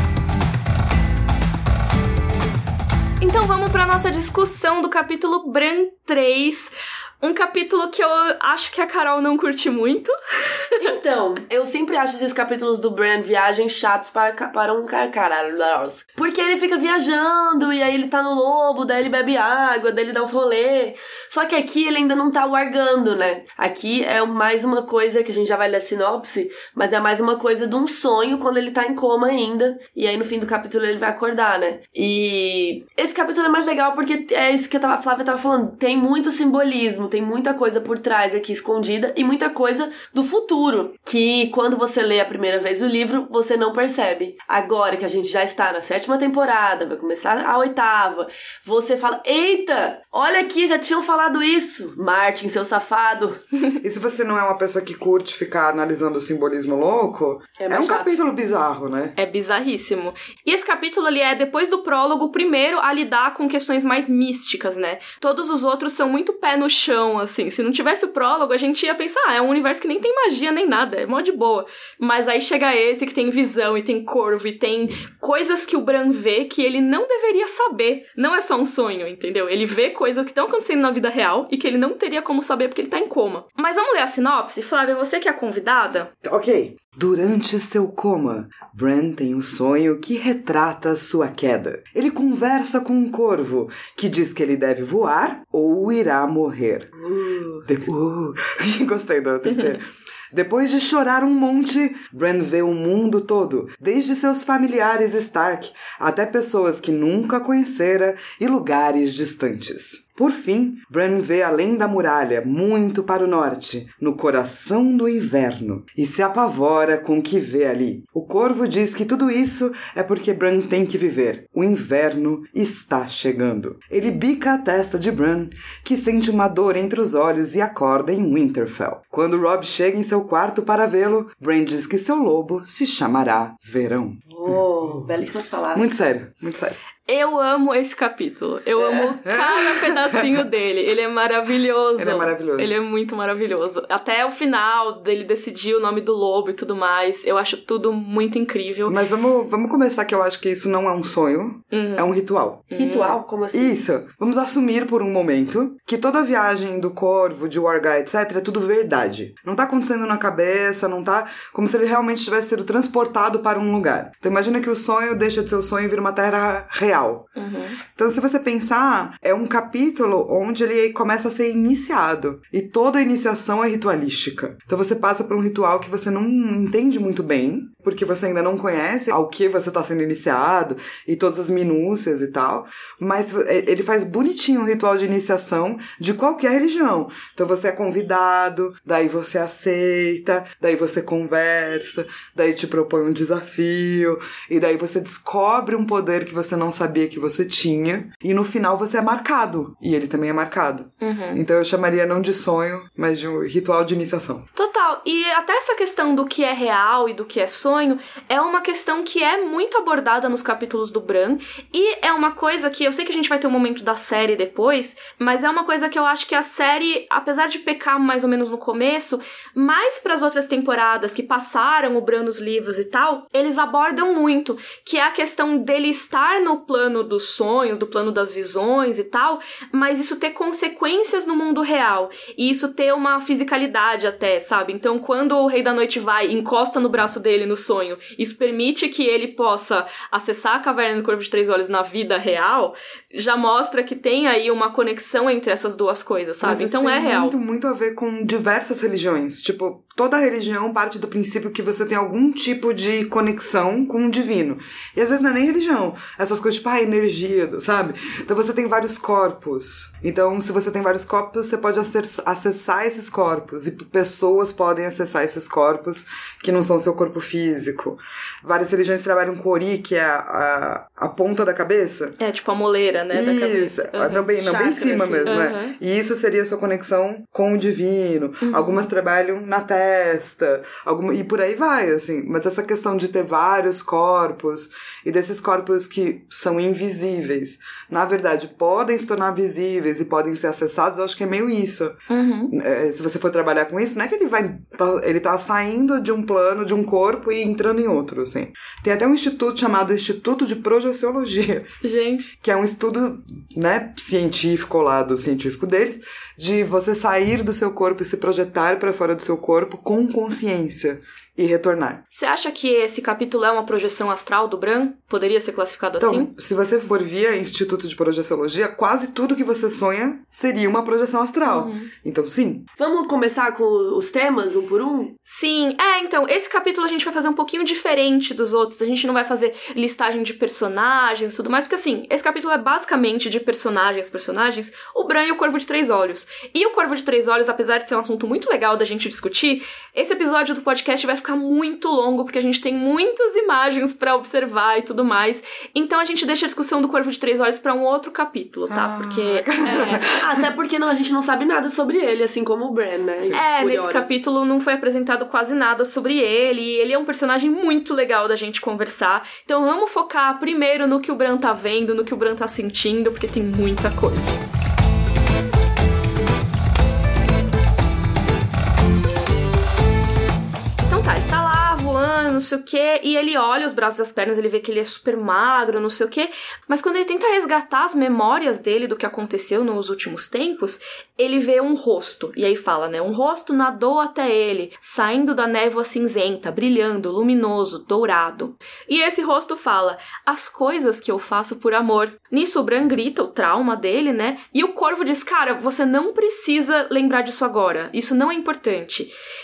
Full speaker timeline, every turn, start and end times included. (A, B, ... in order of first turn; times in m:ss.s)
0:03.2-0:10.1 A
0:10.8-0:53.4 B
0:53.8-0:59.1 C
0:57.6-0:58.2 B
0:59.2-1:26.1 A
1:26.2-1:36.9 C
1:37.0-1:37.6 B
1:37.6-2:15.1 C
2:14.3-2:15.8 B
2:15.7-2:16.8 C
2:17.1-2:29.0 A
2:18.8-2:19.1 B
2:19.2-2:20.4 C
2:22.0-2:22.8 C
2:28.8-2:32.7 C
2:31.7-2:32.1 A
2:32.7-2:33.2 A
2:32.7-2:33.8 B
2:33.5-2:47.3 C
2:47.4-2:47.8 A
2:47.9-3:24.4 C
3:21.0-3:21.4 A
3:24.5-4:07.3 A
4:06.4-4:32.2 C
4:32.2-4:34.3 A
4:33.1-5:01.7 C
4:34.3-4:35.4 B
4:35.2-4:35.8 A
4:38.4-4:38.8 A
4:52.1-4:52.5 A
5:01.8-5:02.3 A
5:02.4-5:12.0 C
5:12.1-5:16.3 A
5:16.0-5:22.6 C
5:21.4-5:21.9 A
5:22.8-5:25.2 B
5:25.2-5:50.0 A
5:48.7-5:50.5 C
5:50.2-5:54.1 B
5:53.3-6:04.3 A
6:10.9-6:39.1 A